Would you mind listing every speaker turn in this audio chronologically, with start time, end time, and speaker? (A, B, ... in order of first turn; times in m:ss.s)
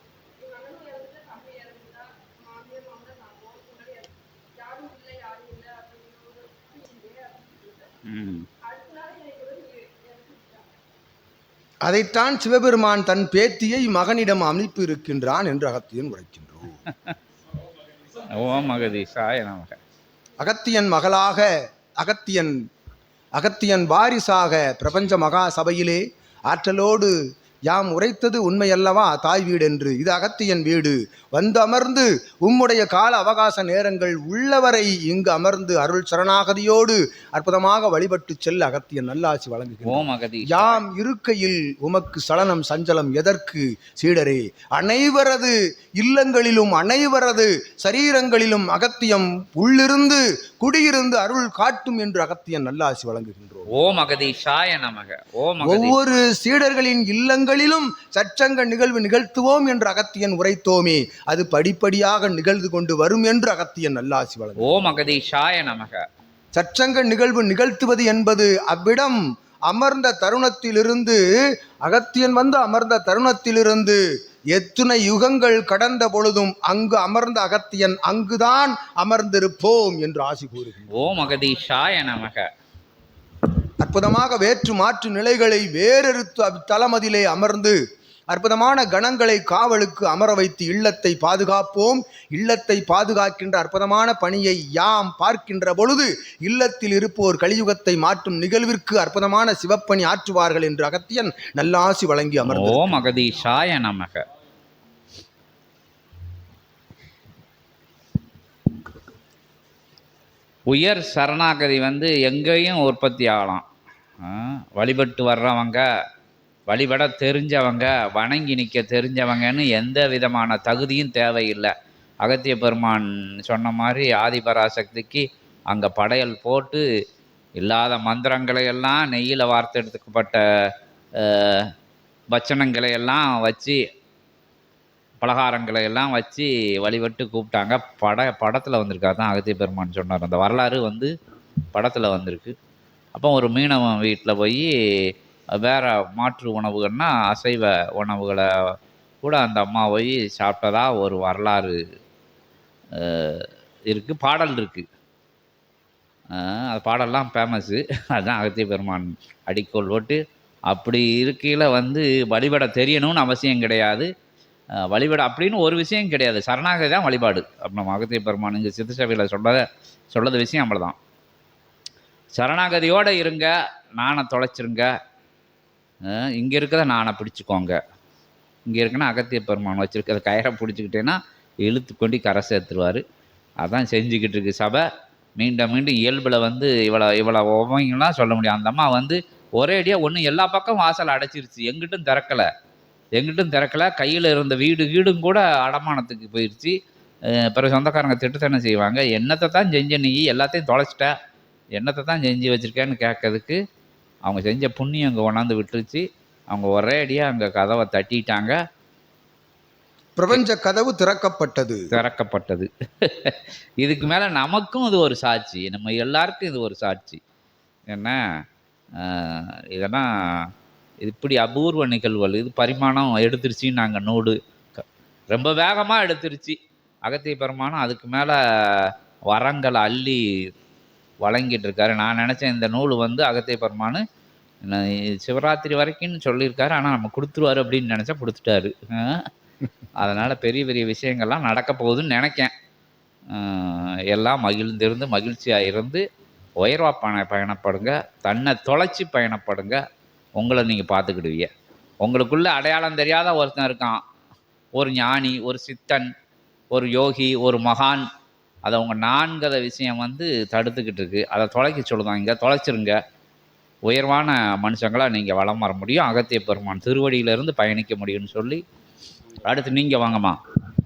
0:00.4-0:07.9 A
0:08.1-0:08.5 B
0:08.6-0:10.8 A
0:11.8-0:16.8 C
0:18.3-0:19.8 B
0:20.4-0:21.5 C
0:22.0-0:22.6 C
0:23.4-0:27.1 C
0:27.7-0:53.7 C
0:39.8-0:40.8 B
0:53.8-0:56.0 B
0:55.6-1:05.0 C
1:04.6-1:06.0 B
1:06.6-1:11.2 C
1:11.8-1:14.0 C
1:14.5-1:20.9 C
1:21.0-1:22.4 B
1:23.8-1:27.8 C
1:28.3-1:43.2 C
1:42.5-1:44.2 B
1:50.7-1:53.6 B
1:54.2-1:55.8 B
1:56.7-2:01.7 B
2:02.2-2:06.8 B
2:07.6-2:10.4 B
2:11.2-2:11.7 B
2:12.3-2:13.8 B
2:15.2-2:21.1 B
2:21.8-2:22.5 B
2:23.2-2:28.4 B
2:29.2-2:31.8 B
2:33.0-2:34.9 B
2:36.3-2:40.2 B
2:40.7-2:44.1 B
2:44.9-2:51.0 B
2:52.4-2:54.9 B
2:56.1-2:57.8 B
2:58.7-3:03.0 B
3:03.6-3:04.8 B
3:05.4-3:12.5 B
3:13.2-3:16.7 B
3:17.4-3:21.1 B
3:21.8-3:23.6 B
3:24.2-3:28.6 B
3:30.2-3:31.9 C
3:31.9-3:37.2 B
3:37.9-3:38.2 B
3:39.0-3:40.5 B
3:41.0-3:50.2 B
3:51.2-3:54.0 B
3:54.6-3:58.8 B
4:00.0-4:02.5 B
4:03.3-4:06.0 B
4:06.6-4:09.8 B
4:10.4-4:11.5 B
4:12.0-4:14.0 B
4:14.8-4:16.1 B
4:16.7-4:18.0 B
4:18.6-4:22.9 B
4:23.9-4:28.6 B
4:29.4-4:30.4 B